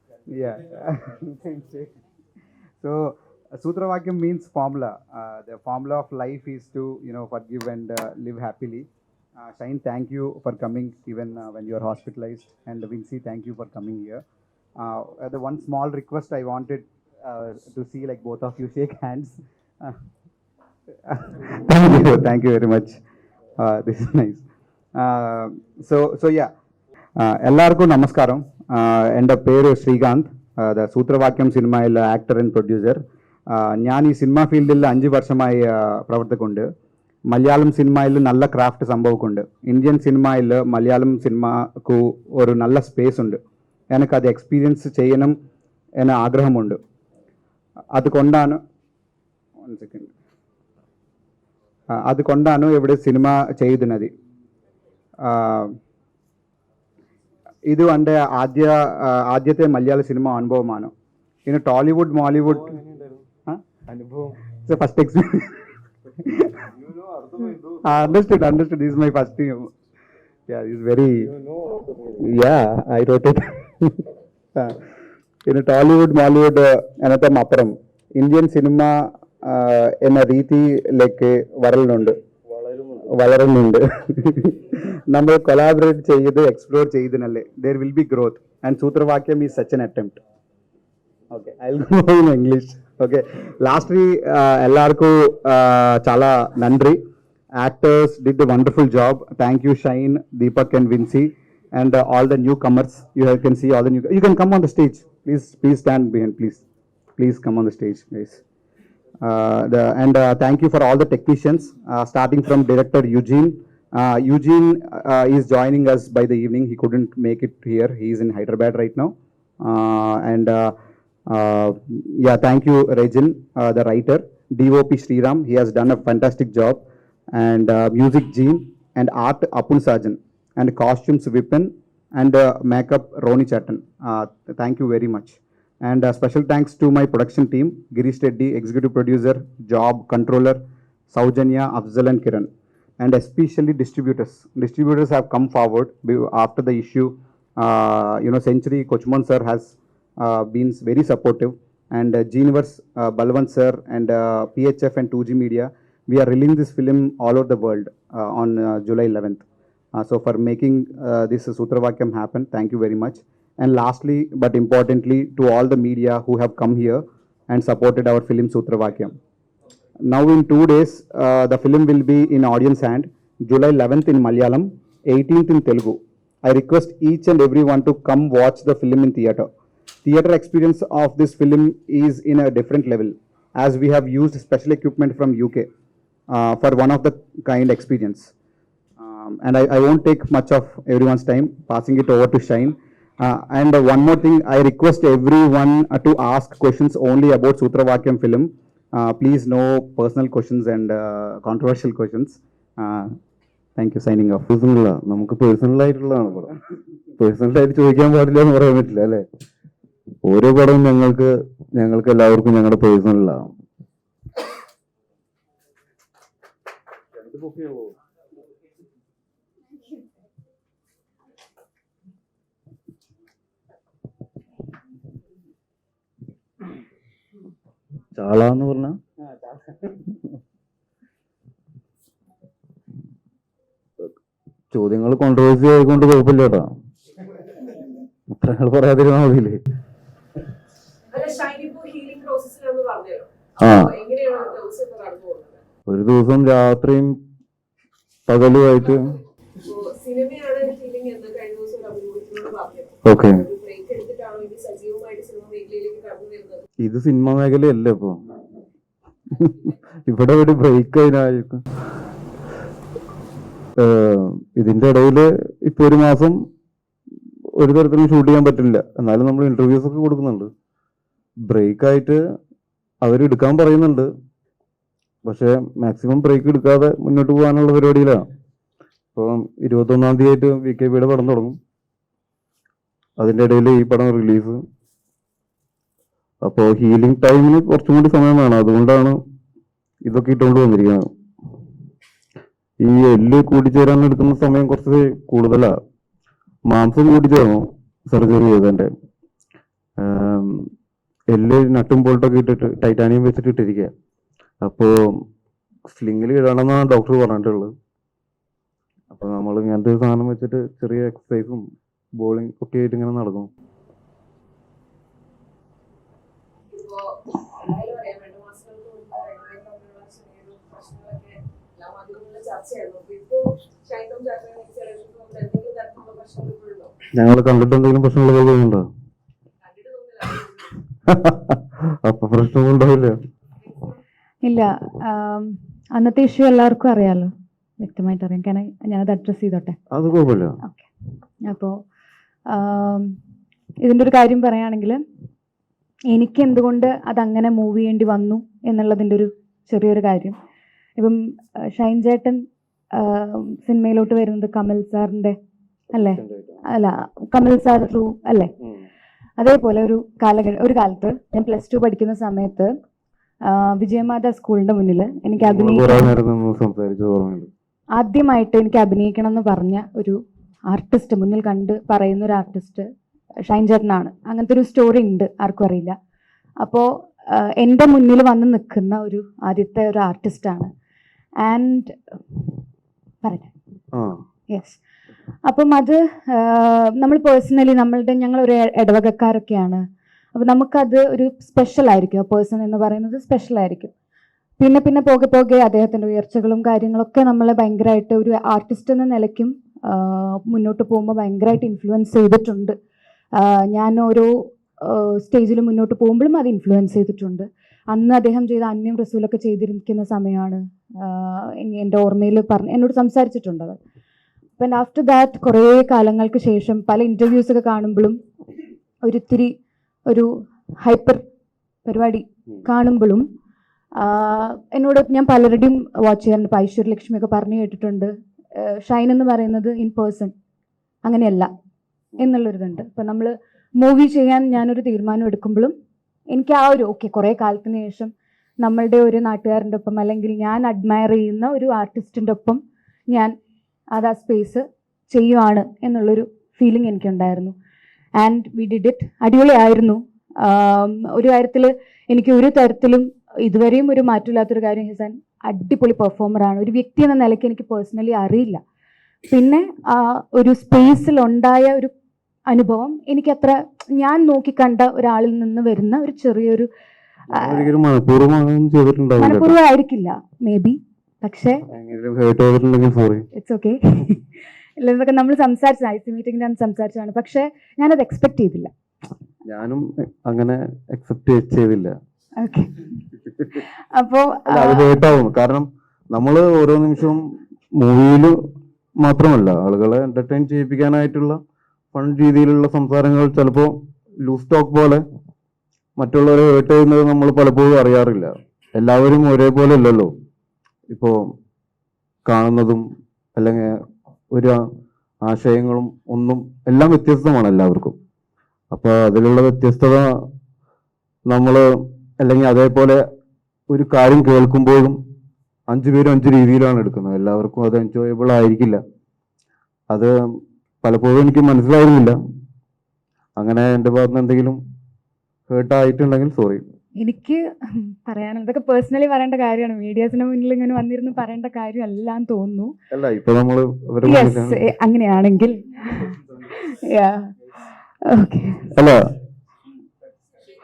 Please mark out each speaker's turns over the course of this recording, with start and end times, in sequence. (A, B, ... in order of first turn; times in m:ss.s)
0:00.3-0:01.9 A
0:02.8-0:14.2 A
0:14.8-0:20.0 A
0:21.1-0:23.0 A
0:23.6-0:24.4 A
0:25.0-0:26.5 A
0:27.2-0:36.7 A
0:37.3-0:43.4 A
0:43.9-0:45.4 A
0:46.0-0:46.8 A
0:47.9-0:48.6 A
0:49.6-0:50.1 A
0:51.9-0:54.1 A
0:55.2-0:55.8 A
0:57.7-1:00.9 A
1:01.5-1:02.8 A
1:02.5-1:03.2 B
1:03.9-1:04.4 B
1:04.6-1:05.6 A
1:06.2-1:06.7 A
1:06.8-1:08.0 B
1:07.8-1:09.7 A
1:10.5-1:11.3 A
1:11.4-1:12.2 B
1:12.2-1:14.0 A
1:15.4-1:22.2 A
1:22.5-1:23.1 B
1:23.1-1:30.2 A
1:31.3-1:37.0 A
1:37.6-1:46.6 A
1:47.2-1:48.4 A
1:49.2-2:00.8 A
2:01.3-2:39.4 A
2:40.0-2:49.1 A
2:50.1-2:59.5 A
3:00.0-3:05.7 A
3:06.3-3:08.3 A
3:09.0-3:23.2 A
3:23.8-3:24.5 A
3:24.5-3:26.5 B
3:27.2-3:29.2 B
3:30.3-3:33.5 B
3:37.2-3:37.9 B
3:48.2-3:49.0 B
3:54.7-3:56.7 B
3:58.3-3:59.6 B
4:01.1-4:05.6 C
4:03.6-4:03.9 B
4:05.9-4:07.2 B
4:08.3-4:09.2 B
4:09.6-4:16.6 C
4:13.0-4:13.4 B
4:16.8-4:18.2 B
4:19.3-4:21.6 B
4:23.8-4:26.4 B
4:27.6-4:30.5 B
4:31.4-4:32.2 B
4:33.0-4:34.1 B
4:35.2-4:38.2 B
4:39.2-4:41.6 B
4:43.2-4:44.6 B
4:46.4-4:49.2 B
4:50.0-4:51.0 B
4:52.8-4:55.7 B
4:56.7-4:58.9 B
5:00.0-5:00.7 B
5:01.3-5:03.9 B
5:04.6-5:04.9 B
5:05.9-5:07.7 B
5:09.1-5:11.6 B
5:12.2-5:13.5 B
5:16.7-5:27.0 C
5:27.1-5:28.9 B
5:29.6-5:30.8 C
5:31.1-5:33.2 B
5:33.6-5:34.0 C
5:34.4-5:37.3 D
5:37.8-5:39.8 D
5:39.9-5:40.6 B
5:41.5-5:41.7 D
5:42.5-5:43.1 D
5:43.8-5:45.0 D
5:46.1-5:50.4 D
5:51.0-5:52.4 D
5:53.0-5:55.4 D
5:55.9-5:58.5 D
5:56.0-5:56.6 B
5:59.4-6:02.7 D
6:03.5-6:06.1 D
6:05.4-6:07.5 B
6:08.0-6:10.2 D
6:10.7-6:12.8 D
6:13.4-6:16.0 D
6:16.6-6:20.7 D
6:21.4-6:22.4 D
6:23.2-6:23.5 D
6:23.9-6:24.2 B
6:24.5-6:24.8 D
6:25.5-6:29.8 D
6:30.4-6:33.9 D
6:34.6-6:42.8 D
6:43.4-6:53.8 D
6:54.6-6:58.2 D
6:59.0-6:59.5 D
7:00.8-7:01.2 D
7:01.9-7:03.2 D
7:04.0-7:10.3 D
7:11.0-7:11.5 D
7:12.2-7:15.7 D
7:16.3-7:23.3 D
7:23.9-7:27.5 D
7:28.2-7:38.6 D
7:39.3-7:41.9 D
7:42.5-7:46.7 D
7:47.3-7:47.7 D
7:47.3-7:49.6 B
7:49.2-7:51.6 D
7:51.7-7:53.3 B
7:53.4-7:54.2 D
7:54.8-7:58.7 D
7:59.5-8:01.9 B
8:02.4-8:02.9 D
8:03.6-8:05.0 D
8:04.5-8:07.2 B
8:07.8-8:08.4 B
8:09.0-8:11.4 B
8:11.9-8:15.0 B
8:16.0-8:20.1 B
8:20.9-8:21.2 B
8:22.3-8:22.8 B
8:23.4-8:23.8 B
8:24.3-8:24.6 B
8:25.3-8:28.0 B
8:28.7-8:30.3 B
8:31.3-8:33.0 B
8:33.7-8:35.0 B
8:35.7-8:38.8 B
8:39.9-8:40.2 B
8:40.8-8:42.2 B
8:43.4-8:44.6 B
8:45.5-8:46.6 B
8:47.0-8:52.7 D
8:52.9-8:54.6 B
8:54.0-8:57.3 D
8:58.0-8:58.7 D
8:58.7-8:59.0 B